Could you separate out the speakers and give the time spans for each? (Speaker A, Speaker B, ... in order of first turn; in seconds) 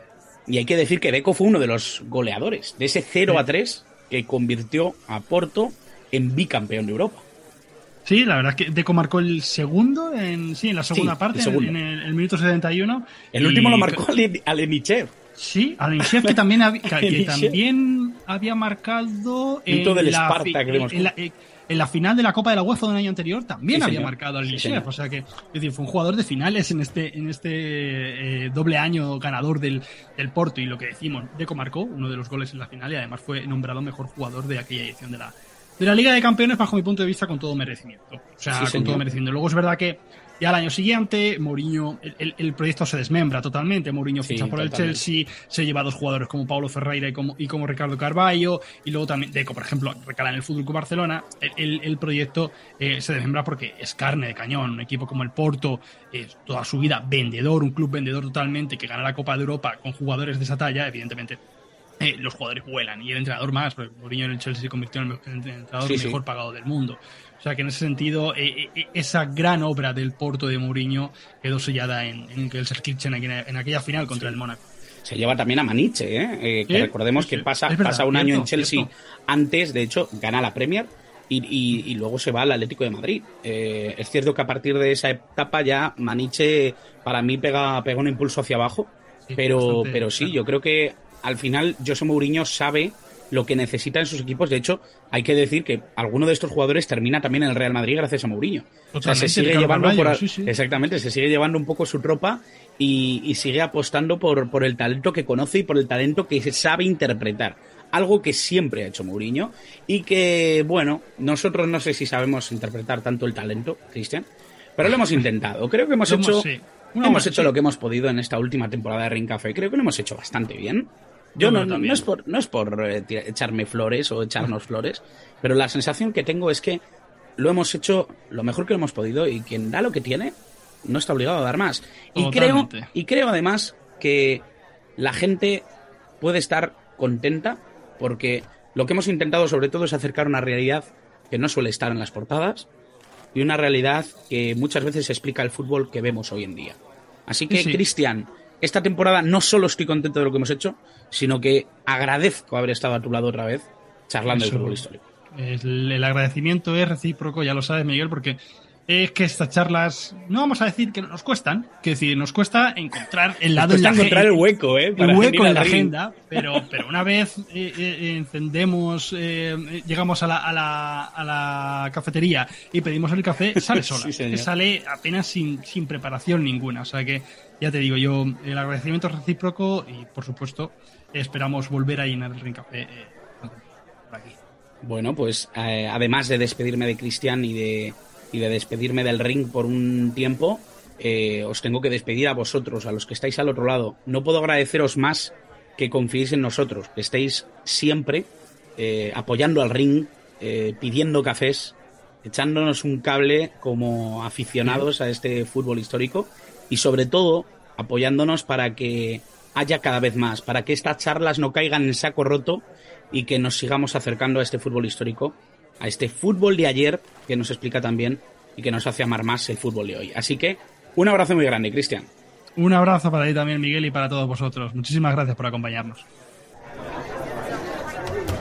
Speaker A: 0.5-7.2, 10.9-11.7, 13.3-15.1, 16.0-16.4, 16.9-17.6, 19.7-21.1, 23.7-24.9, 38.5-39.0, 44.2-45.0, 65.8-66.2, 75.0-114.2, 114.8-116.5, 117.0-126.8, 127.4-134.5, 135.0-135.7, 136.2-142.7, 143.3-155.0, 163.6-166.6, 173.6-174.5, 184.8-222.1
Speaker B: 8.0-14.0, 15.4-61.4, 62.0-74.6, 76.7-78.9, 89.3-90.4, 98.9-100.5, 114.9-115.2, 116.1-117.5, 121.4-122.0, 132.2-132.9, 147.5-147.8, 154.3-164.4, 165.0-184.4, 222.6-226.1